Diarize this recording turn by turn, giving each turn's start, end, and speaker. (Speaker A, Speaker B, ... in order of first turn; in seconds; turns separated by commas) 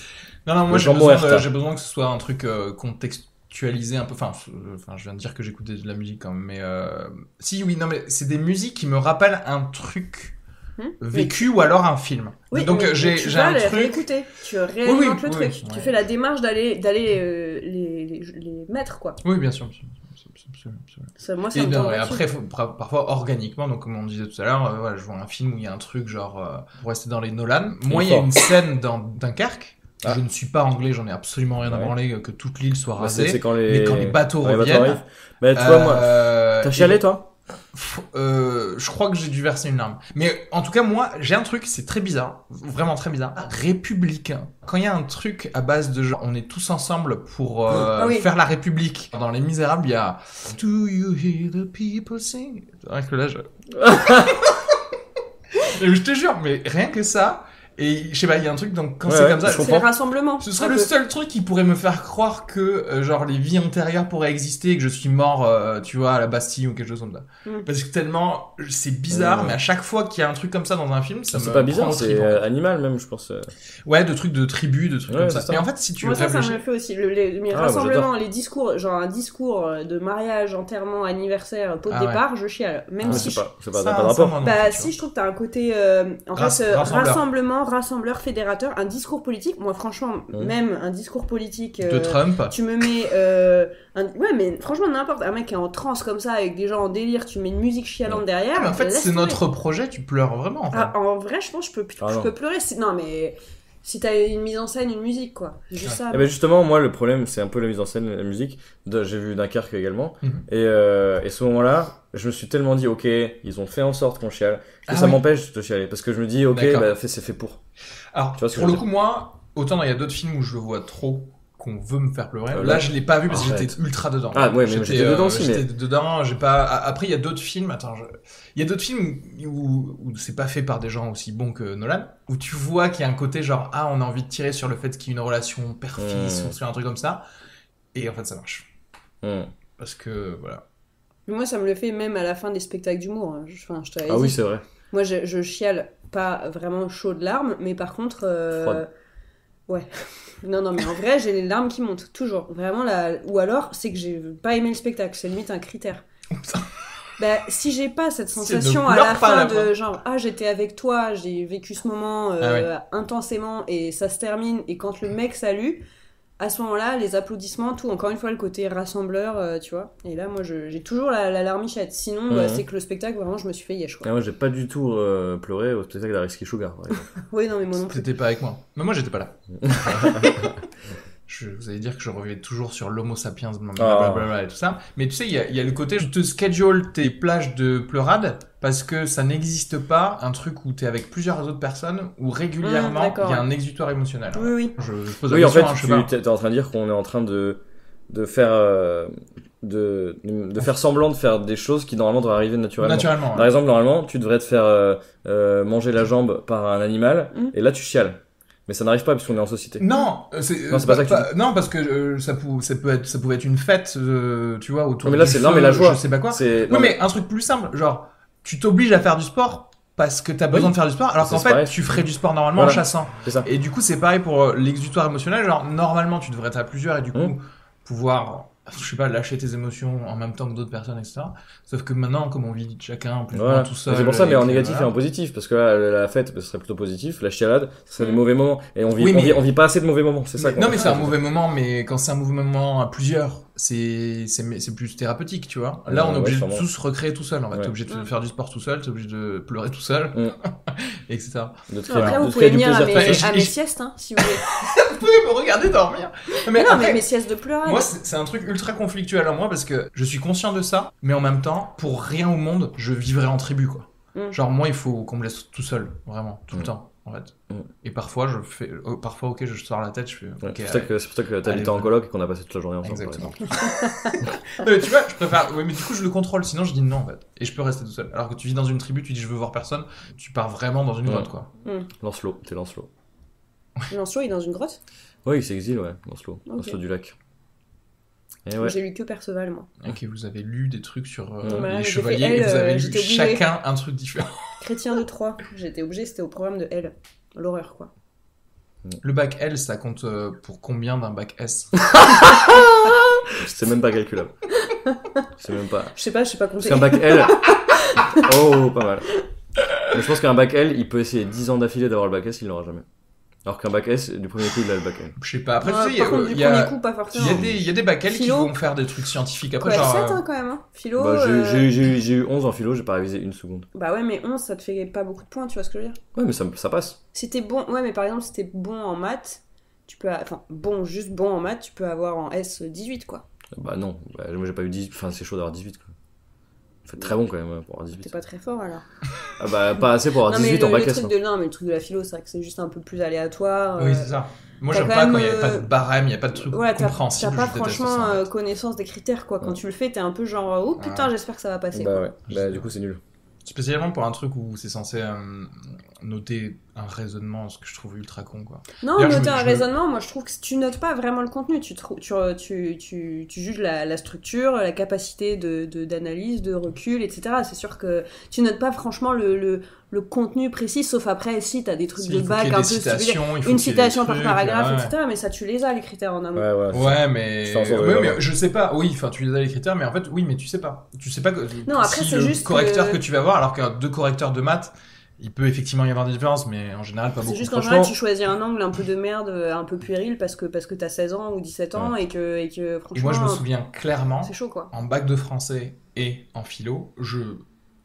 Speaker A: 0.5-10.4, Speaker B: 0.7-1.4, Speaker C: 10.8-11.4, Speaker A: 11.0-14.1, Speaker C: 12.5-19.2, Speaker A: 14.8-15.9, Speaker A: 19.2-35.0, Speaker C: 21.2-22.3, Speaker B: 27.9-28.3, Speaker B: 31.6-31.9, Speaker B: 33.0-37.3, Speaker A: 35.5-37.0, Speaker A: 37.7-54.6, Speaker C: 48.0-48.3, Speaker B: 53.8-54.4, Speaker A: 55.6-72.4, Speaker B: 59.0-59.8, Speaker C: 59.4-60.9, Speaker B: 69.1-69.6, Speaker B: 71.3-73.5, Speaker A: 73.8-76.6, Speaker B: 75.1-75.7, Speaker C: 76.0-83.5, Speaker B: 77.5-78.1, Speaker A: 81.9-82.2, Speaker A: 83.0-84.9, Speaker B: 83.0-84.4, Speaker C: 84.4-99.4, Speaker A: 86.3-87.2, Speaker A: 91.8-92.6, Speaker A: 98.5-100.9, Speaker C: 100.7-106.3, Speaker B: 102.0-102.3, Speaker B: 106.1-117.6, Speaker A: 114.9-115.2, Speaker A: 116.5-116.9, Speaker A: 118.1-137.2, Speaker B: 118.4-118.8, Speaker B: 122.5-123.8, Speaker B: 124.3-125.7, Speaker B: 136.0-136.6, Speaker A: 137.9-138.7, Speaker B: 139.2-139.5, Speaker A: 139.8-140.6, Speaker C: 141.3-144.4, Speaker B: 144.1-144.6, Speaker C: 144.9-148.9, Speaker B: 148.5-148.8, Speaker C: 150.4-156.0, Speaker A: 156.4-156.7, Speaker C: 157.2-165.8, Speaker A: 158.3-159.7, Speaker A: 162.4-162.7, Speaker C: 166.4-174.1, Speaker B: 172.3-172.6, Speaker B: 174.0-177.1, Speaker C: 177.3-178.1, Speaker A: 177.9-180.6, Speaker B: 179.6-180.4, Speaker A: 181.3-196.1, Speaker B: 183.8-184.3, Speaker C: 192.6-193.5, Speaker C: 194.3-194.7, Speaker B: 195.3-209.8, Speaker A: 202.8-203.5, Speaker A: 209.8-234.9, Speaker B: 210.7-211.3, Speaker B: 215.0-217.0, Speaker B: 220.5-222.0, Speaker B: 222.5-223.5, Speaker B: 233.3-241.2, Speaker A: 239.0-239.4, Speaker A: 240.4-252.2, Speaker B: 245.9-246.6, Speaker B: 251.7-253.4, Speaker C: 251.8-254.4, Speaker A: 252.9-253.5, Speaker A: 254.2-257.1, Speaker C: 256.5-257.9, Speaker A: 257.6-271.9, Speaker B: 270.4-273.4, Speaker A: 272.8-281.5, Speaker C: 273.6-274.2, Speaker B: 281.9-282.9, Speaker C: 283.9-284.8, Speaker B: 285.2-287.1, Speaker C: 286.5-286.8, Speaker B: 288.4-288.8, Speaker C: 288.6-289.7, Speaker A: 289.8-294.4, Speaker B: 291.4-291.7, Speaker C: 291.5-293.4, Speaker C: 294.6-297.9, Speaker A: 299.0-302.0, Speaker B: 301.9-304.3, Speaker C: 304.6-305.2, Speaker B: 305.4-305.9, Speaker C: 305.9-308.3, Speaker B: 306.6-307.6, Speaker B: 308.1-309.1, Speaker B: 309.9-312.8, Speaker B: 313.4-315.1, Speaker A: 315.2-320.2, Speaker C: 315.6-317.5, Speaker B: 317.2-317.6, Speaker C: 318.1-318.5, Speaker C: 319.6-321.7, Speaker B: 321.0-323.7, Speaker C: 323.7-326.0, Speaker B: 326.1-327.0, Speaker C: 327.1-333.2, Speaker B: 333.6-335.9, Speaker B: 336.8-338.1, Speaker C: 338.0-338.8, Speaker B: 339.4-341.1, Speaker C: 340.2-344.1, Speaker A: 343.8-348.3, Speaker C: 344.7-345.7, Speaker C: 346.4-352.1, Speaker A: 350.8-351.1, Speaker B: 351.7-353.0, Speaker A: 352.3-352.7, Speaker A: 353.4-359.7, Speaker C: 358.8-376.5, Speaker A: 372.0-374.9, Speaker B: 376.4-378.2, Speaker A: 376.7-387.9, Speaker C: 381.6-383.0, Speaker C: 387.2-393.4, Speaker A: 392.9-397.4, Speaker C: 394.2-394.7